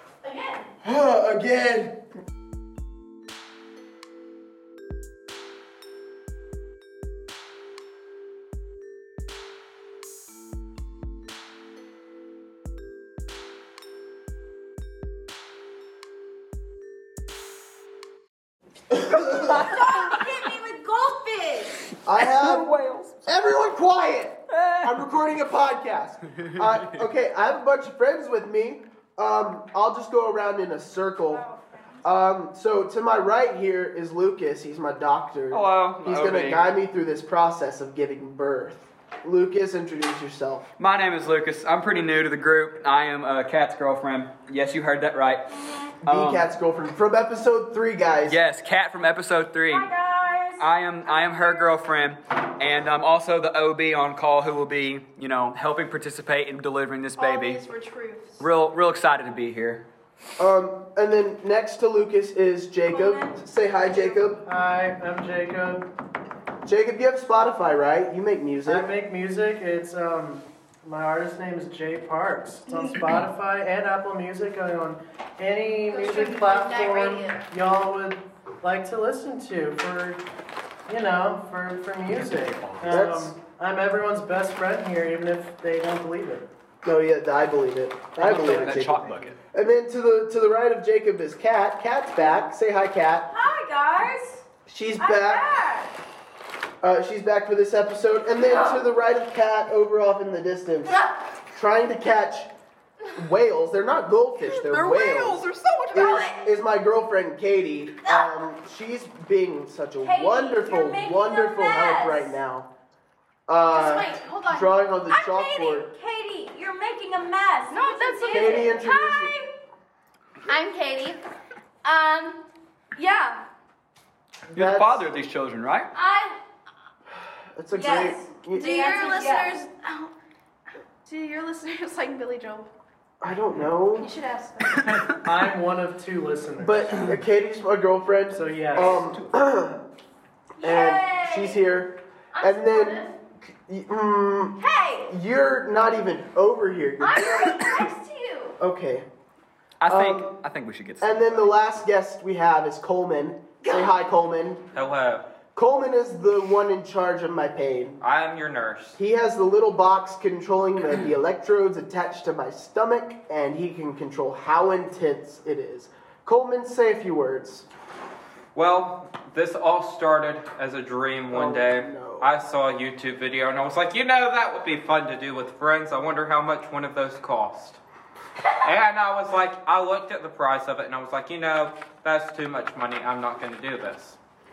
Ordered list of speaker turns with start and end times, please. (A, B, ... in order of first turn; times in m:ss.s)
0:00.2-0:00.7 A
0:00.8-0:02.0 B
0:18.9-0:19.6 B
0:19.1-0:20.2 C
0:19.6-0:21.7 A
0:20.1-0:20.4 D
0:22.0-0:22.7 B
0:22.1-0:23.3 C
0:23.2-0:31.4 B
0:24.5-0:25.1 C
0:26.3-0:27.0 C
0:31.3-0:32.0 D
0:31.4-0:31.7 A
0:32.0-0:40.7 B
0:35.5-0:36.7 C
0:40.8-0:46.5 C
0:46.0-0:48.4 B
0:48.2-0:49.9 C
0:49.6-0:51.6 A
0:50.6-0:57.6 C
0:57.2-0:58.5 D
0:58.4-0:59.8 C
1:00.4-1:04.4 B
1:02.9-1:03.4 A
1:04.4-1:05.9 E
1:06.6-1:08.9 B
1:08.6-1:20.2 E
1:15.9-1:17.5 D
1:20.9-1:26.5 E
1:22.2-1:23.0 C
1:22.8-1:23.4 B
1:26.8-1:33.3 B
1:28.2-1:29.4 C
1:28.2-1:29.3 E
1:33.3-1:34.4 A
1:34.6-1:35.6 B
1:35.0-1:35.9 A
1:36.8-1:41.0 B
1:40.9-1:41.2 A
1:41.5-1:42.5 B
1:43.2-1:52.7 B
1:45.8-1:46.5 D
1:45.9-1:46.4 A
1:50.0-1:52.3 A
1:53.5-1:55.9 B
1:53.6-1:54.9 D
1:55.1-1:59.0 A
1:57.7-1:59.5 D
1:58.2-1:59.3 B
2:00.4-2:01.2 D
2:01.8-2:02.4 D
2:03.0-2:03.4 D
2:04.5-2:05.9 C
2:04.5-2:05.0 B
2:06.0-2:06.3 A
2:06.0-2:06.4 D
2:07.5-2:08.8 B
2:07.8-2:09.6 A
2:07.8-2:10.1 D
2:11.0-2:12.7 D
2:13.2-2:14.1 B
2:13.9-2:15.1 D
2:15.2-2:17.1 E
2:16.6-2:19.8 B
2:18.3-2:19.0 E
2:20.6-2:27.8 B
2:20.6-2:21.6 A
2:22.4-2:23.1 A
2:22.4-2:22.7 D
2:24.6-2:25.1 D
2:27.0-2:28.5 D
2:27.2-2:28.5 A
2:28.6-2:29.0 B
2:29.8-2:31.6 C
2:29.8-2:30.3 B
2:31.0-2:34.6 B
2:33.6-2:34.0 D
2:34.7-2:35.2 F
2:35.5-2:38.0 B
2:38.0-2:39.0 F
2:39.0-2:47.7 B
2:48.5-2:57.8 F
2:51.3-2:52.3 B
2:58.6-3:04.2 F